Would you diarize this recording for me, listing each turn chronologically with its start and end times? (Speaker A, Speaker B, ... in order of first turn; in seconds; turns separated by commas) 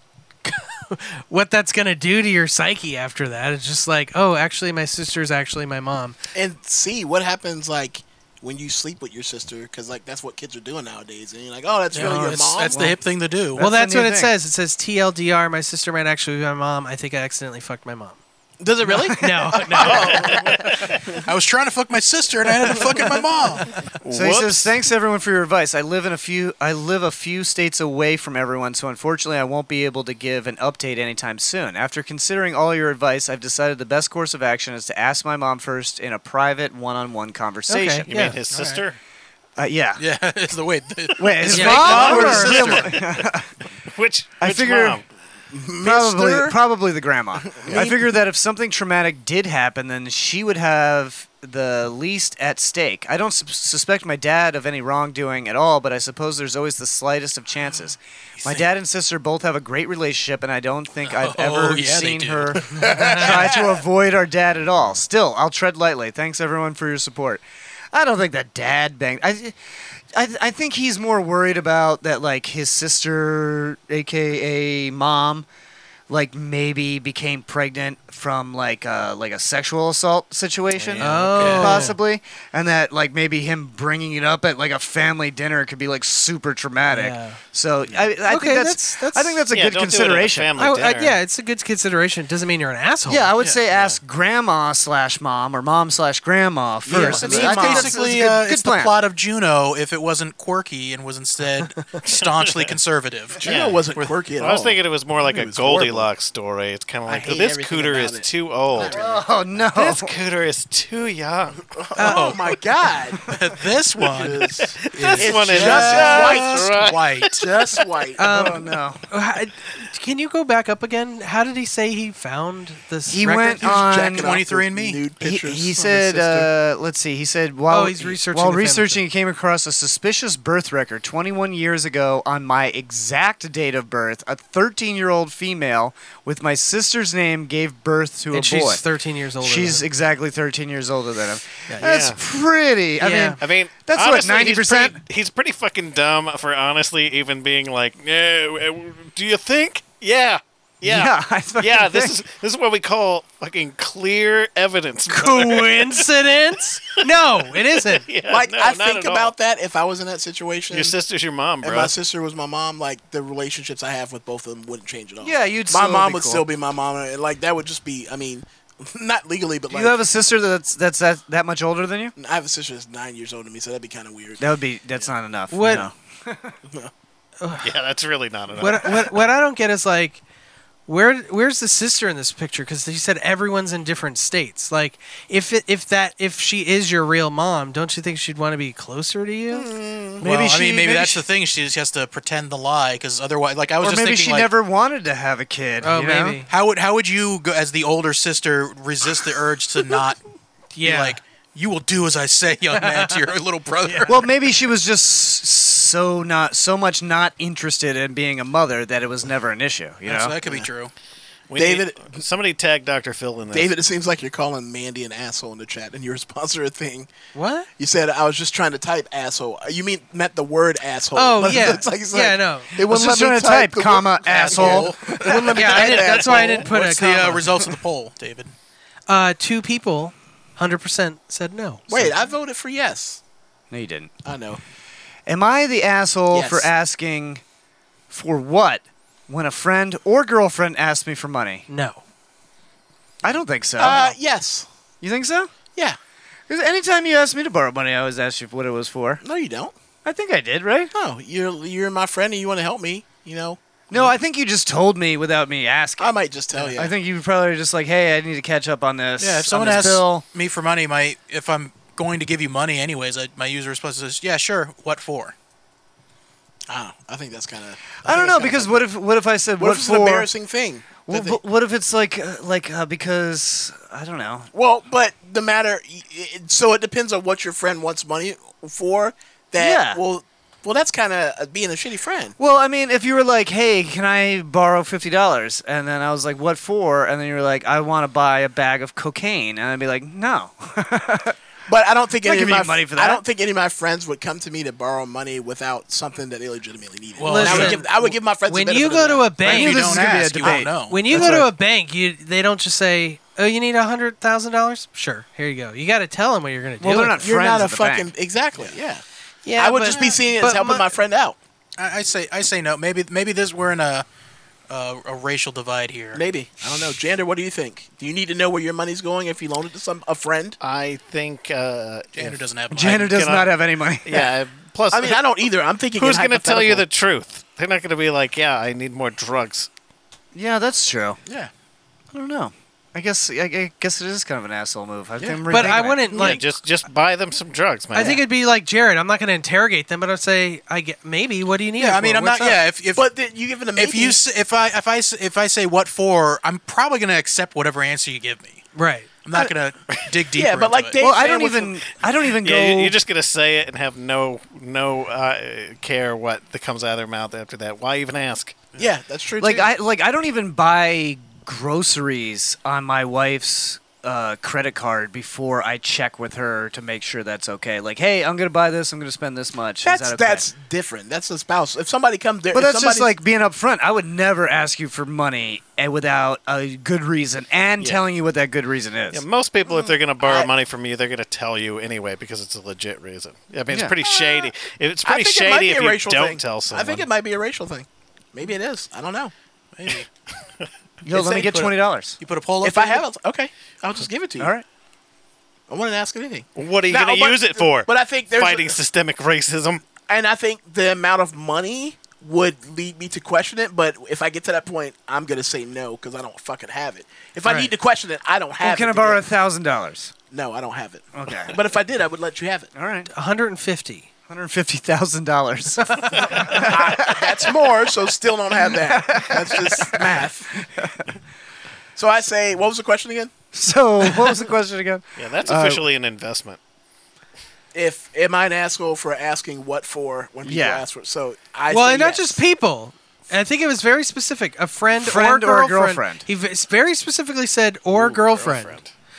Speaker A: 0.4-6.2, Speaker B: 6.3-12.8, Speaker C: 11.9-13.6, Speaker D: 12.0-13.0, Speaker D: 13.6-14.3, Speaker A: 13.6-18.2, Speaker B: 18.6-21.2, Speaker A: 19.1-20.3, Speaker E: 19.7-21.0, Speaker C: 21.2-23.7, Speaker E: 23.9-24.8, Speaker D: 24.1-38.1, Speaker A: 37.7-38.4, Speaker E: 38.0-39.0, Speaker C: 38.5-38.8, Speaker D: 39.6-40.0, Speaker C: 40.0-42.9, Speaker D: 41.2-43.5, Speaker A: 41.5-42.6, Speaker E: 41.6-45.0, Speaker D: 44.4-45.0, Speaker B: 45.5-46.6, Speaker D: 45.8-67.4, Speaker B: 47.5-48.1, Speaker C: 61.0-63.3, Speaker B: 62.7-63.6, Speaker D: 67.9-69.5, Speaker D: 70.1-75.5, Speaker D: 76.1-90.5, Speaker E: 80.7-81.6, Speaker A: 81.0-82.0, Speaker C: 81.4-81.8, Speaker A: 86.9-87.4, Speaker A: 88.2-89.5, Speaker E: 89.5-91.2, Speaker A: 90.5-93.3, Speaker D: 93.1-98.9, Speaker E: 93.7-94.0, Speaker B: 96.8-98.0, Speaker C: 97.0-103.4, Speaker E: 102.0-102.8, Speaker B: 103.4-106.1, Speaker E: 103.4-109.0, Speaker B: 107.1-109.2, Speaker D: 108.9-110.1, Speaker E: 109.7-111.6, Speaker B: 111.7-113.3, Speaker C: 112.0-112.5, Speaker A: 112.0-112.3, Speaker C: 113.2-117.5, Speaker B: 114.0-118.2, Speaker E: 114.5-117.7, Speaker A: 118.2-123.8, Speaker D: 118.2-119.0, Speaker D: 123.1-124.3, Speaker B: 123.6-126.5, Speaker C: 124.1-125.0, Speaker D: 125.2-138.8, Speaker A: 127.7-129.0, Speaker A: 138.3-139.9, Speaker D: 139.4-145.0, Speaker E: 141.8-142.2, Speaker A: 143.0-143.4, Speaker E: 143.4-156.1, Speaker D: 150.8-152.2, Speaker A: 155.1-158.1, Speaker E: 156.8-159.3, Speaker B: 158.2-160.9, Speaker E: 160.7-161.9, Speaker B: 161.6-170.0, Speaker D: 165.2-166.4, Speaker D: 169.7-172.1, Speaker B: 172.2-174.4, Speaker D: 174.4-176.6, Speaker A: 175.5-175.9, Speaker A: 177.4-177.7, Speaker E: 177.6-179.2, Speaker A: 178.6-180.2, Speaker A: 180.8-189.7, Speaker B: 189.5-190.2, Speaker D: 190.2-191.2, Speaker C: 190.2-194.5, Speaker D: 193.8-196.4, Speaker A: 195.8-196.5, Speaker C: 196.5-200.2, Speaker A: 200.7-201.2, Speaker C: 200.8-204.2, Speaker A: 202.8-203.2, Speaker A: 203.8-204.1, Speaker D: 204.1-210.3, Speaker C: 210.0-210.9, Speaker E: 211.5-213.7, Speaker B: 211.5-212.2, Speaker B: 213.5-217.1, Speaker A: 217.3-217.7, Speaker B: 217.8-226.7, Speaker A: 221.1-222.7, Speaker D: 222.8-224.9, Speaker C: 224.2-228.5, Speaker A: 225.3-227.5, Speaker A: 229.1-232.1, Speaker B: 231.9-233.2, Speaker D: 233.7-234.1, Speaker B: 234.2-234.6, Speaker D: 235.3-237.4, Speaker B: 236.3-236.7, Speaker D: 238.1-241.6, Speaker A: 241.7-242.0, Speaker D: 243.2-244.2, Speaker B: 243.3-244.7, Speaker D: 245.0-245.5, Speaker D: 246.5-249.2, Speaker B: 249.2-249.7, Speaker D: 250.0-250.9, Speaker B: 250.9-254.1, Speaker D: 253.9-256.1, Speaker B: 256.0-256.9, Speaker D: 256.7-260.2, Speaker C: 259.2-265.3, Speaker B: 266.7-268.9, Speaker D: 268.0-270.3, Speaker B: 269.6-271.4, Speaker D: 271.1-274.5, Speaker B: 274.5-282.4, Speaker D: 279.6-280.0, Speaker D: 282.4-291.4, Speaker B: 291.7-299.4, Speaker D: 292.2-293.2, Speaker C: 297.2-297.8, Speaker A: 297.2-307.2, Speaker C: 299.4-301.1, Speaker D: 299.4-301.5, Speaker D: 306.8-308.1, Speaker B: 307.2-309.0, Speaker A: 309.4-310.9, Speaker B: 309.6-311.4, Speaker C: 311.8-314.0, Speaker C: 314.7-316.2, Speaker B: 316.1-320.6, Speaker E: 320.6-322.4, Speaker C: 322.1-323.2, Speaker D: 322.7-324.1, Speaker E: 322.9-325.2, Speaker B: 324.9-326.8, Speaker E: 325.9-329.7, Speaker D: 330.3-331.2, Speaker D: 332.1-336.1, Speaker B: 335.2-336.4, Speaker A: 335.5-336.4, Speaker E: 336.1-338.2, Speaker A: 337.9-342.6, Speaker C: 341.8-343.1, Speaker B: 342.9-344.2, Speaker C: 343.7-348.7, Speaker A: 348.7-349.1, Speaker C: 349.2-351.0, Speaker B: 350.3-351.8, Speaker D: 351.0-352.9, Speaker E: 352.3-358.8, Speaker B: 358.8-359.7, Speaker D: 359.4-370.5, Speaker B: 369.8-373.1, Speaker D: 372.5-379.2, Speaker E: 379.1-387.1, Speaker B: 379.7-380.5, Speaker D: 383.7-383.9, Speaker B: 384.0-384.5, Speaker B: 385.0-389.3, Speaker C: 389.8-390.1, Speaker D: 391.0-392.2, Speaker B: 391.1-391.6, Speaker C: 391.3-393.0, Speaker B: 392.6-394.5, Speaker D: 394.4-394.6, Speaker B: 395.7-398.8, Speaker E: 396.5-399.8, Speaker B: 400.0-409.2, Speaker A: 407.4-407.7, Speaker D: 408.6-410.1, Speaker B: 410.3-412.7, Speaker D: 411.1-411.5, Speaker D: 412.7-413.1, Speaker A: 413.1-414.1, Speaker D: 414.3-417.2, Speaker A: 415.9-416.4, Speaker B: 416.3-420.6, Speaker D: 418.9-421.1, Speaker B: 421.9-423.3, Speaker D: 423.5-425.8, Speaker E: 425.1-426.6, Speaker B: 427.7-432.4, Speaker D: 430.4-430.8, Speaker A: 431.7-438.8, Speaker D: 434.9-436.2, Speaker E: 437.9-438.9